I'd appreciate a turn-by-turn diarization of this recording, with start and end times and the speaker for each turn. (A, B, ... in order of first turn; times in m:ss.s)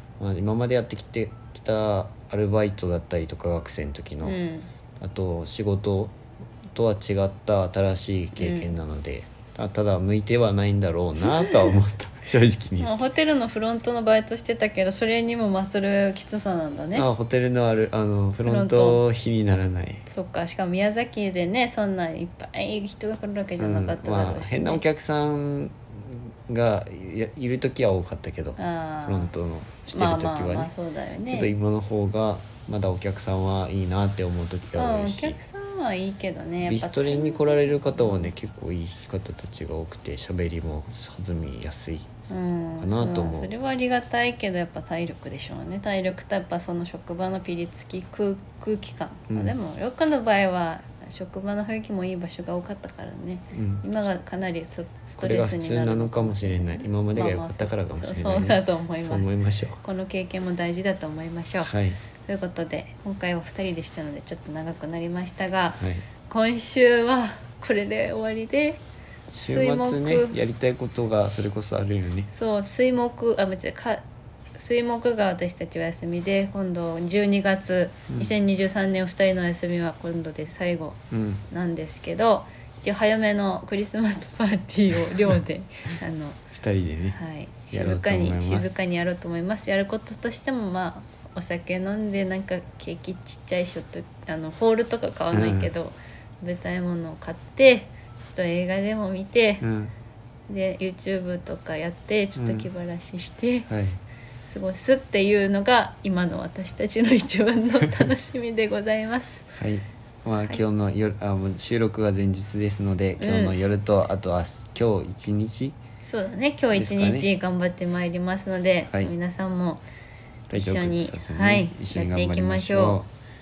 0:00.2-0:04.4 A
0:04.2-0:04.7 B
0:05.0-0:06.2 A
0:06.7-0:13.0 A
0:08.4-0:08.7 B
0:12.8-0:17.1 B
0:16.9-0:20.0 A
0:18.4-0:19.0 B
0:20.1-0:24.8 B
0:23.6-0:30.7 A
0:28.6-0:29.3 B
0:29.9-0:31.5 B
0:31.3-0:35.4 A
0:34.8-0:38.3 B
0:36.6-0:42.1 A
0:42.3-0:59.3 B
0:42.8-0:43.5 A
0:49.3-0:49.6 A
0:53.5-0:53.8 A
0:55.2-0:59.8 A
0:59.8-1:01.7 B
1:01.6-1:02.0 A
1:02.2-1:08.8 B
1:05.8-1:06.0 A
1:09.3-1:12.3 A
1:09.4-1:10.4 B
1:12.3-1:14.0 B
1:14.6-1:26.4 B
1:21.1-1:21.4 A
1:26.5-1:27.2 A
1:27.1-1:39.6 B
1:27.7-1:28.7 A
1:35.3-1:35.7 A
1:39.6-1:39.9 A
1:40.5-1:43.7 B
1:42.4-1:42.7 A
1:43.7-1:44.0 A
1:44.5-1:49.4 B
1:49.6-1:55.8 A
1:53.2-1:53.6 B
1:56.0-1:59.8 B
1:56.7-1:57.3 A
1:58.8-1:59.1 A
2:00.5-2:03.1 A
2:00.5-2:03.0 B